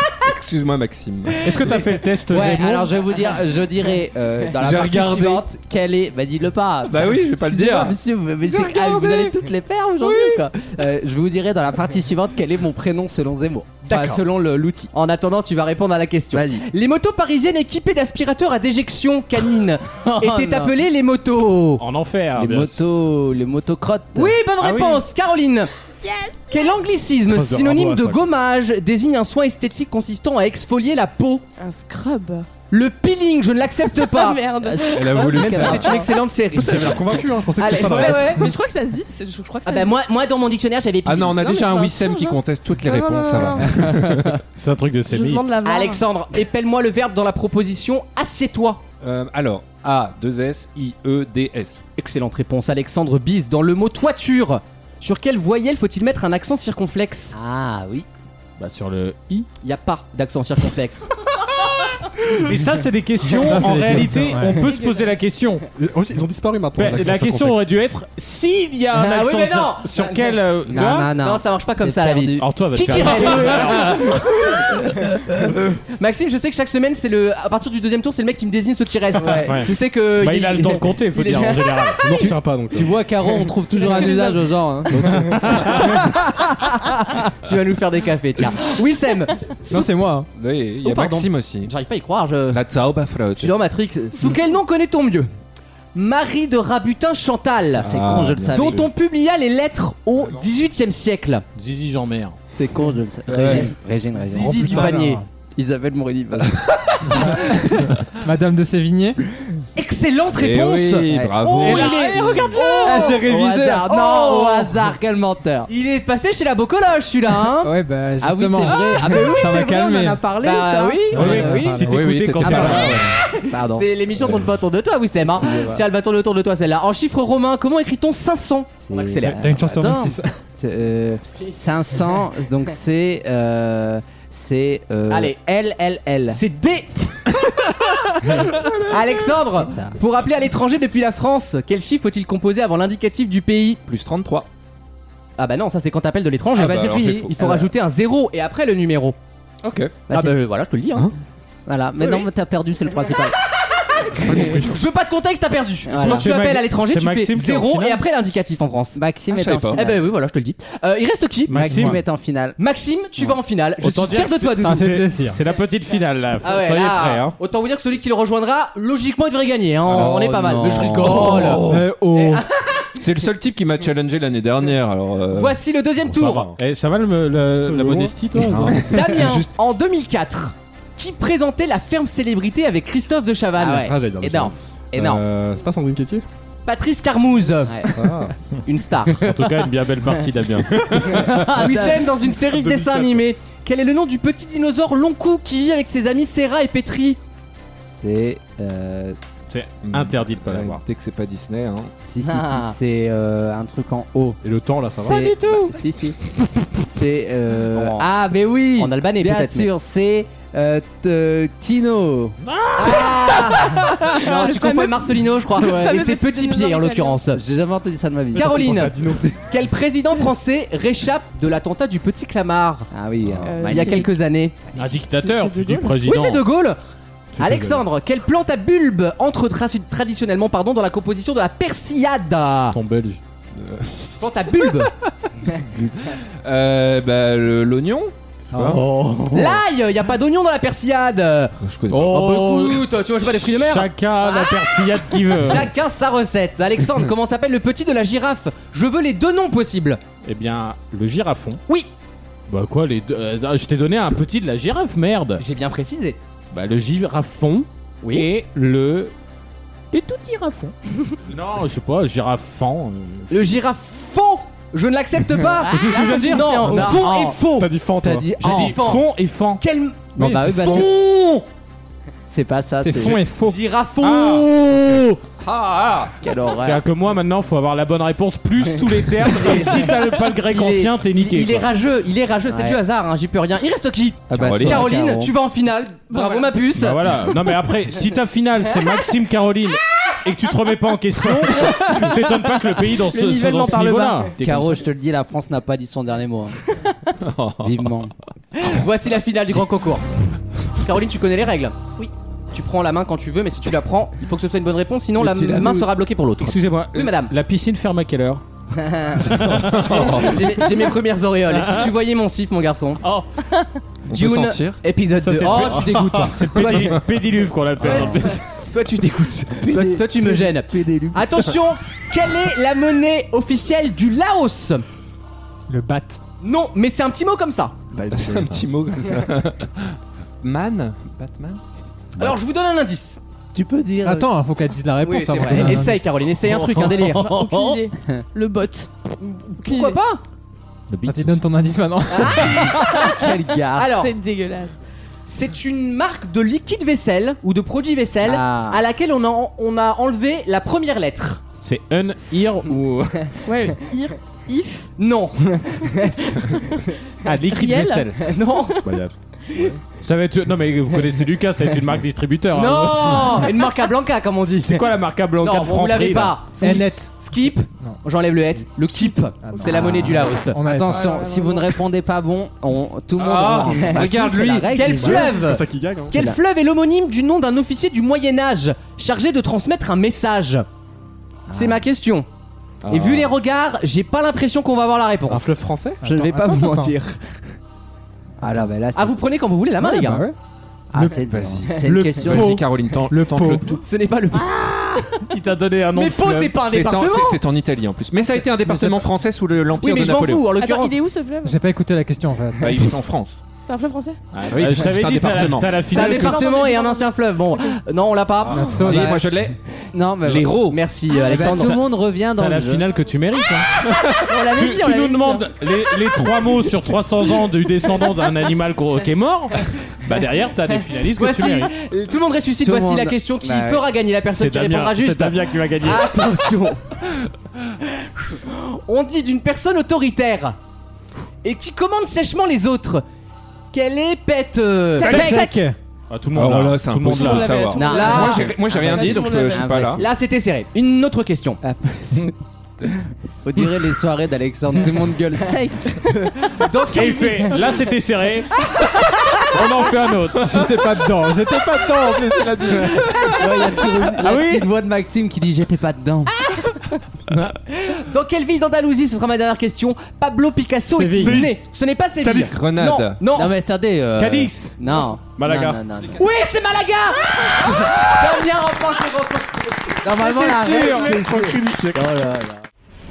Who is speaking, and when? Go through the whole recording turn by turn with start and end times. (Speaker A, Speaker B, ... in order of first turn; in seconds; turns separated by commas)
Speaker A: 0.2-1.5, Speaker B: 1.4-2.9, Speaker C: 2.3-14.2, Speaker A: 4.5-5.4, Speaker A: 6.8-8.0, Speaker A: 8.7-9.2, Speaker D: 13.8-21.8, Speaker C: 16.3-16.7, Speaker C: 20.1-20.7, Speaker B: 21.8-22.8, Speaker C: 22.3-24.4, Speaker D: 24.1-25.7, Speaker B: 24.6-25.0, Speaker D: 26.5-31.4, Speaker B: 27.3-28.2, Speaker E: 27.3-28.1, Speaker F: 31.6-32.5, Speaker D: 32.7-34.5, Speaker F: 34.0-35.6, Speaker C: 34.6-36.1, Speaker A: 34.9-36.0, Speaker D: 35.3-38.5, Speaker E: 36.5-38.5, Speaker F: 37.6-40.0, Speaker D: 39.6-41.5, Speaker A: 41.0-44.4, Speaker F: 41.4-44.0, Speaker B: 44.5-45.5, Speaker F: 45.1-46.0, Speaker D: 45.6-48.8, Speaker A: 49.0-51.8, Speaker D: 52.0-57.3, Speaker C: 57.3-58.1, Speaker B: 58.6-59.5, Speaker D: 59.6-61.1, Speaker B: 62.4-65.6, Speaker G: 63.4-64.6, Speaker F: 64.3-65.2, Speaker E: 65.8-67.6, Speaker B: 66.8-71.2, Speaker D: 68.9-70.4, Speaker C: 70.7-73.3, Speaker D: 71.2-81.8, Speaker B: 72.4-74.2, Speaker C: 79.2-79.6, Speaker B: 79.4-82.4, Speaker E: 81.4-83.0, Speaker C: 82.7-85.8, Speaker F: 83.7-84.4, Speaker B: 84.9-86.0, Speaker E: 85.0-85.7, Speaker D: 87.4-89.6, Speaker G: 89.7-90.3, Speaker A: 89.7-91.7, Speaker D: 90.8-92.6, Speaker A: 92.5-93.6, Speaker D: 93.4-95.3, Speaker D: 95.9-97.9, Speaker C: 97.8-98.9, Speaker A: 97.8-98.9, Speaker D: 98.5-101.4, Speaker A: 100.2-100.5, Speaker B: 101.5-102.3, Speaker C: 102.5-106.5, Speaker A: 103.3-103.7, Speaker D: 104.2-105.2, Speaker G: 104.3-105.2, Speaker C: 107.1-107.4, Speaker G: 107.1-109.2, Speaker D: 109.8-114.8, Speaker A: 110.3-112.4, Speaker C: 111.1-111.4, Speaker B: 111.6-112.8, Speaker C: 112.7-115.7, Speaker G: 112.8-113.9, Speaker D: 115.7-117.7, Speaker G: 117.6-120.3, Speaker C: 118.2-121.7, Speaker D: 118.6-119.8, Speaker D: 120.3-121.8, Speaker G: 121.1-121.9, Speaker B: 121.1-123.0, Speaker A: 121.8-123.1, Speaker D: 122.4-130.1, Speaker C: 123.5-124.5, Speaker C: 125.2-125.9, Speaker C: 128.9-136.4, Speaker G: 129.2-130.3, Speaker D: 135.1-135.3, Speaker D: 136.3-143.8, Speaker C: 139.6-140.0, Speaker A: 143.8-144.5, Speaker D: 145.4-149.2, Speaker A: 146.6-147.6, Speaker C: 146.6-147.7, Speaker A: 149.6-150.0, Speaker C: 150.1-150.3, Speaker D: 150.1-151.1, Speaker C: 151.7-153.4, Speaker D: 152.0-152.3, Speaker D: 153.7-159.0, Speaker E: 154.2-154.8, Speaker C: 155.8-156.3, Speaker B: 156.0-158.0, Speaker C: 158.9-160.0, Speaker A: 159.3-159.8, Speaker D: 159.7-161.8, Speaker B: 161.5-162.0, Speaker G: 161.6-161.9, Speaker C: 161.7-162.6, Speaker D: 162.6-165.0, Speaker B: 163.8-167.3, Speaker G: 164.5-165.4, Speaker D: 166.4-172.9, Speaker C: 169.9-171.6, Speaker A: 170.8-171.9, Speaker G: 171.6-172.4, Speaker A: 173.0-175.6, Speaker D: 175.3-176.5, Speaker E: 176.0-176.6, Speaker B: 176.6-178.9, Speaker E: 177.7-178.6, Speaker A: 178.4-179.5, Speaker D: 178.7-185.2, Speaker C: 183.6-184.1, Speaker E: 183.8-186.2, Speaker D: 186.7-187.9, Speaker C: 187.7-188.0, Speaker E: 187.9-188.3, Speaker D: 188.7-189.7, Speaker B: 189.1-191.2, Speaker D: 190.9-197.2, Speaker E: 191.6-193.2, Speaker C: 197.8-199.6, Speaker B: 199.5-200.8, Speaker A: 199.8-201.9, Speaker C: 202.0-204.4, Speaker D: 202.2-202.8, Speaker E: 204.4-205.3, Speaker C: 204.9-206.2, Speaker B: 205.1-205.7, Speaker C: 206.7-212.3, Speaker D: 207.7-208.0, Speaker D: 208.8-209.7, Speaker B: 212.4-213.5, Speaker D: 212.8-217.4, Speaker F: 214.1-217.2, Speaker C: 217.3-218.9, Speaker D: 218.3-222.9, Speaker E: 218.3-219.4, Speaker C: 222.9-224.1, Speaker F: 223.4-224.1, Speaker D: 223.6-224.6, Speaker B: 224.7-226.4, Speaker F: 225.1-226.0, Speaker D: 226.0-226.8, Speaker E: 227.4-227.8, Speaker D: 227.4-232.8, Speaker B: 232.7-233.2, Speaker A: 233.6-234.0, Speaker D: 234.2-234.9, Speaker A: 236.4-238.8, Speaker C: 238.5-238.8, Speaker B: 238.6-239.6, Speaker D: 239.3-250.0, Speaker A: 241.6-242.1, Speaker B: 241.9-245.7, Speaker B: 250.2-251.6, Speaker B: 252.5-255.4, Speaker D: 255.4-256.2, Speaker B: 256.5-259.1, Speaker B: 261.2-263.6, Speaker D: 263.3-269.1, Speaker F: 265.6-267.1, Speaker B: 265.7-267.1, Speaker E: 267.4-268.6, Speaker C: 268.0-268.8, Speaker B: 268.4-269.6, Speaker D: 269.6-271.3, Speaker G: 270.2-270.8, Speaker C: 270.2-270.9, Speaker E: 270.2-270.8, Speaker C: 272.3-273.2, Speaker G: 272.8-273.6, Speaker D: 273.4-275.2, Speaker A: 274.0-274.5, Speaker A: 275.4-276.1, Speaker C: 276.2-276.8, Speaker D: 276.2-276.6, Speaker B: 276.6-281.7, Speaker D: 279.3-287.2, Speaker C: 282.5-282.8, Speaker C: 284.3-285.3, Speaker A: 284.3-284.8, Speaker F: 286.1-286.5, Speaker B: 286.7-294.8, Speaker F: 293.1-294.3, Speaker C: 294.4-296.6, Speaker A: 297.2-297.9, Speaker C: 297.6-298.1, Speaker D: 298.5-300.1, Speaker D: 300.8-301.7, Speaker D: 302.5-307.3, Speaker B: 305.1-305.9, Speaker B: 306.4-308.4, Speaker D: 308.8-313.0, Speaker B: 309.2-310.9, Speaker A: 309.5-310.4, Speaker B: 311.5-311.9, Speaker B: 313.0-313.3, Speaker A: 314.1-314.8, Speaker D: 314.1-317.0, Speaker B: 315.2-318.4, Speaker D: 317.8-324.8, Speaker C: 319.5-321.5, Speaker G: 325.7-326.2, Speaker D: 326.4-327.8, Speaker E: 327.9-328.7, Speaker A: 328.1-331.6, Speaker D: 332.2-333.2, Speaker C: 333.5-334.3, Speaker G: 334.0-336.1, Speaker D: 335.0-337.3, Speaker B: 336.4-337.8, Speaker F: 336.9-338.9, Speaker D: 339.2-340.2, Speaker F: 339.6-340.0, Speaker B: 340.9-341.4, Speaker G: 341.1-342.9, Speaker D: 342.1-344.1, Speaker C: 342.6-343.9, Speaker F: 342.9-343.2, Speaker F: 343.8-344.8, Speaker D: 345.2-351.4, Speaker C: 348.2-348.8, Speaker B: 351.6-352.9, Speaker F: 353.4-354.9, Speaker D: 355.0-356.7, Speaker B: 357.2-358.2, Speaker F: 357.5-358.8, Speaker D: 358.2-358.8, Speaker E: 358.8-359.8, Speaker B: 360.0-363.5, Speaker D: 362.5-370.6, Speaker B: 364.6-366.4, Speaker G: 366.6-367.1, Speaker G: 369.4-371.2, Speaker C: 369.6-375.3, Speaker F: 370.9-371.7, Speaker A: 373.2-374.7, Speaker D: 373.8-380.6, Speaker E: 374.7-376.2, Speaker C: 376.1-376.4, Speaker C: 381.5-381.8, Speaker D: 381.5-382.3, Speaker A: 382.8-383.3, Speaker D: 382.9-387.1, Speaker E: 385.3-386.0, Speaker G: 386.0-386.9, Speaker C: 388.4-389.2, Speaker D: 388.9-390.3, Speaker G: 389.8-390.3, Speaker C: 390.9-392.6, Speaker A: 391.1-393.8, Speaker G: 392.3-393.7, Speaker D: 393.7-395.2, Speaker B: 395.2-396.6, Speaker D: 395.9-397.4, Speaker A: 396.6-400.5, Speaker G: 398.7-399.0, Speaker D: 399.8-400.9, Speaker F: 400.6-401.6, Speaker G: 401.4-402.9, Speaker A: 402.5-403.4, Speaker F: 403.6-404.2, Speaker B: 404.3-406.5, Speaker A: 404.5-405.8, Speaker D: 405.8-409.3, Speaker F: 405.9-407.8, Speaker G: 408.5-409.1, Speaker A: 408.6-409.6, Speaker C: 409.9-410.7, Speaker A: 410.2-410.8, Speaker D: 410.7-411.8, Speaker C: 411.2-412.9, Speaker B: 411.4-411.8, Speaker B: 412.4-421.7, Speaker F: 414.2-415.4, Speaker D: 421.1-426.9, Speaker C: 422.6-423.8, Speaker B: 424.4-426.4, Speaker D: 428.2-430.6, Speaker D: 431.4-433.0, Speaker D: 433.7-435.6, Speaker F: 434.9-435.6, Speaker G: 435.0-435.8, Speaker B: 436.1-437.7, Speaker A: 436.3-440.0, Speaker F: 437.1-439.7, Speaker C: 437.8-440.0, Speaker D: 437.8-438.5, Speaker D: 440.0-441.6, Speaker C: 441.6-442.9, Speaker C: 443.4-446.3, Speaker D: 446.4-447.7, Speaker B: 446.9-448.5, Speaker B: 449.4-450.9, Speaker G: 450.4-453.3, Speaker C: 452.7-456.3, Speaker B: 454.2-454.7, Speaker B: 457.3-457.5, Speaker D: 457.7-463.5, Speaker G: 460.9-461.5, Speaker E: 461.2-461.6, Speaker A: 462.4-463.2, Speaker C: 463.3-466.2, Speaker B: 464.2-464.7, Speaker E: 465.4-465.7, Speaker D: 466.1-470.0, Speaker C: 470.0-472.6, Speaker B: 470.2-471.2, Speaker D: 470.8-471.1, Speaker E: 471.0-472.1